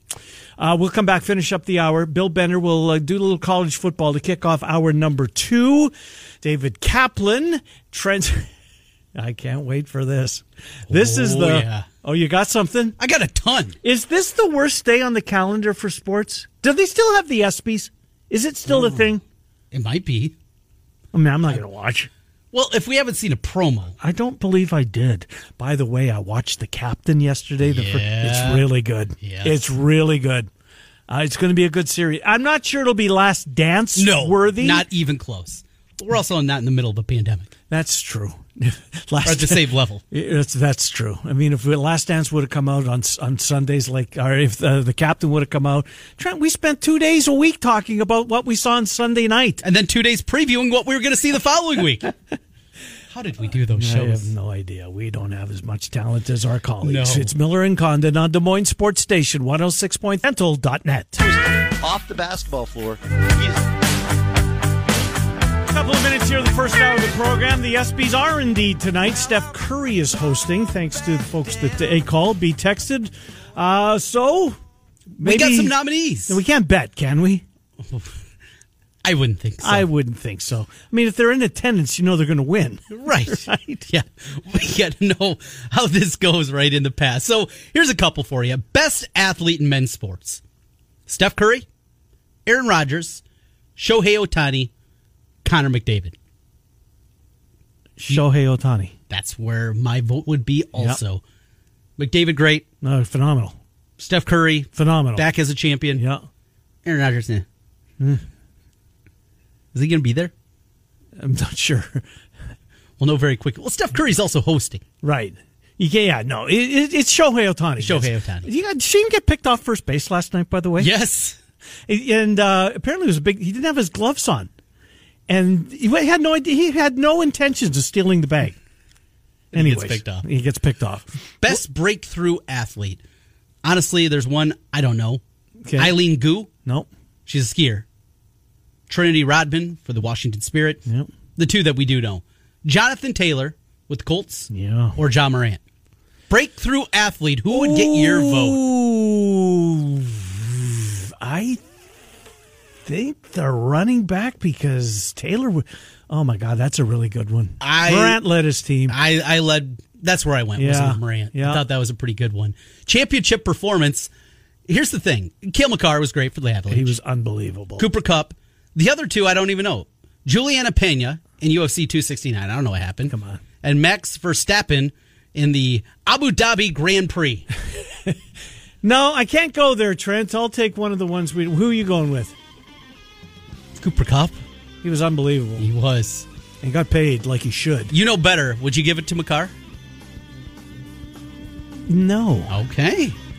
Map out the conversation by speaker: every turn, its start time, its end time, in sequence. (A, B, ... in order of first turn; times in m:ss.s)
0:00.6-0:08.5 A
0:09.1-0:13.0 A
0:10.9-0:11.9 B
0:13.0-0:13.8 B
0:13.8-0:19.2 A
0:18.7-0:19.1 B
0:19.7-0:20.3 B
0:21.1-0:22.1 A
0:22.5-0:24.0 B
0:24.0-0:30.5 A
0:27.6-0:28.6 B
0:29.2-0:29.5 B
0:31.1-0:34.8 A
0:34.0-0:37.5 B
0:37.7-0:49.6 A
0:39.2-0:40.0 B
0:49.6-0:52.1 B
0:53.1-0:54.3 B
0:53.8-1:01.2 A
0:56.8-0:57.3 B
1:01.2-1:03.6 C
1:05.7-1:14.6 A
1:15.2-1:15.7 A
1:15.2-1:16.4 B
1:16.2-1:17.4 A
1:17.8-1:18.2 B
1:19.0-1:19.9 B
1:19.6-1:23.9 A
1:23.0-1:30.4 B
1:31.1-1:31.6 B
1:32.4-1:33.2 B
1:33.8-1:34.7 B
1:35.4-1:36.1 B
1:38.0-1:38.9 A
1:39.1-1:41.2 B
1:42.0-1:42.6 B
1:42.8-1:43.6 A
1:44.0-1:46.0 B
1:44.7-1:45.2 A
1:46.0-1:46.2 A
1:46.8-1:47.4 B
1:49.7-1:50.3 B
1:51.2-1:52.0 A
1:53.0-1:54.8 B
1:55.0-2:00.9 A
1:57.8-1:58.5 B
2:00.8-2:01.4 B
2:01.9-2:04.5 A
2:05.3-2:08.6 A
2:09.5-2:10.2 B
2:09.5-2:11.5 A
2:11.4-2:13.0 B
2:13.6-2:15.2 B
2:15.6-2:15.9 A
2:15.8-2:16.5 B
2:17.2-2:17.8 B
2:18.9-2:20.8 B
2:21.4-2:25.6 B
2:24.5-2:25.0 A
2:26.3-2:28.6 B
2:27.5-2:31.6 A
2:32.8-2:39.0 A
2:37.6-2:38.2 B
2:38.9-2:44.1 B
2:40.6-2:41.6 A
2:44.7-2:46.9 B
2:46.7-2:47.8 A
2:47.8-2:57.4 B
2:53.1-2:53.4 A
2:58.8-3:02.3 A
3:03.8-3:04.4 B
3:04.8-3:05.7 A
3:05.6-3:06.2 B
3:06.6-3:07.9 A
3:07.9-3:09.5 B
3:11.9-3:12.5 A
3:12.5-3:13.2 B